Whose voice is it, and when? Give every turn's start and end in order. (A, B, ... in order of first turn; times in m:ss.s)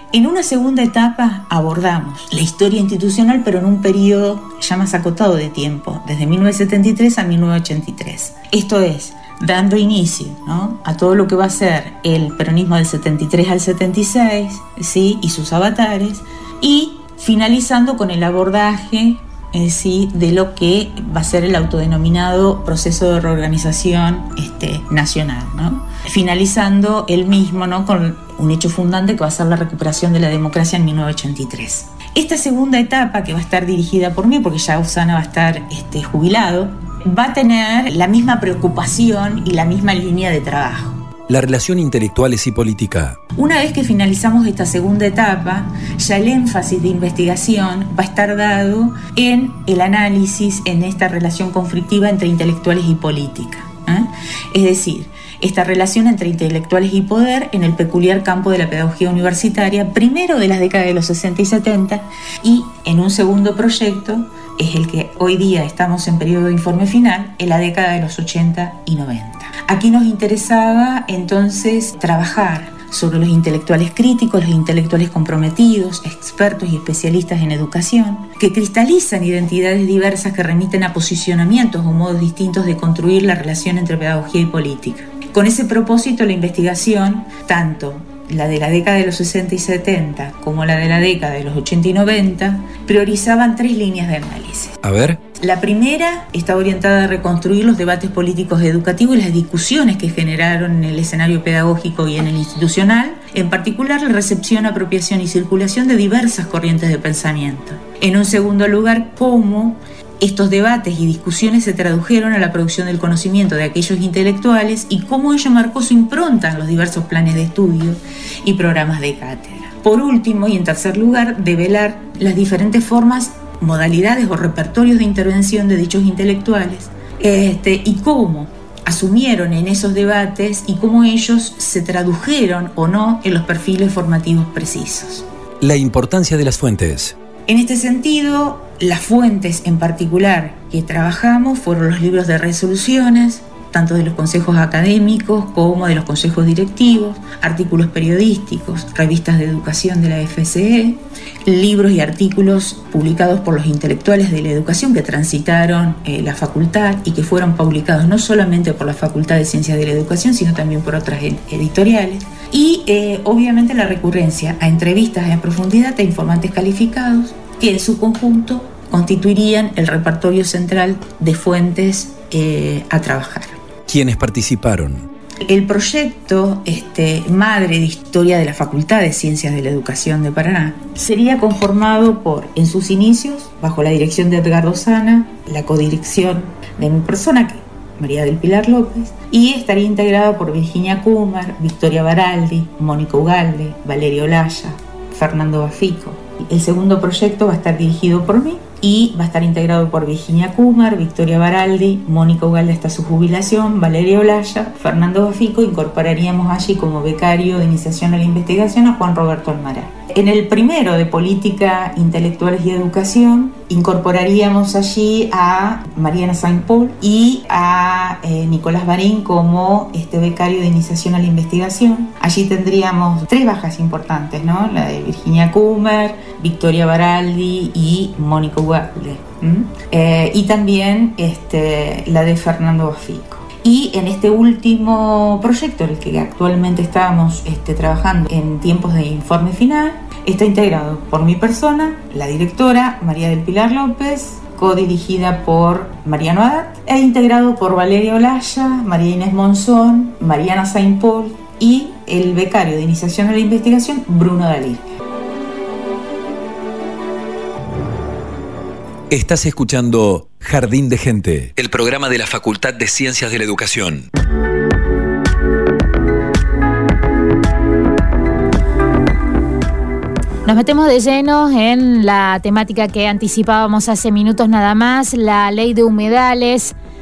0:00.1-0:41.0 A
0:41.3-0:43.2 B
0:43.3-1:34.8 A
1:34.8-1:35.2 B
1:35.4-2:15.3 A
2:15.6-2:17.1 B
2:17.4-2:53.6 A
2:53.9-2:55.1 B
2:55.4-4:14.8 A
4:19.1-4:24.1 B
4:30.4-4:36.7 C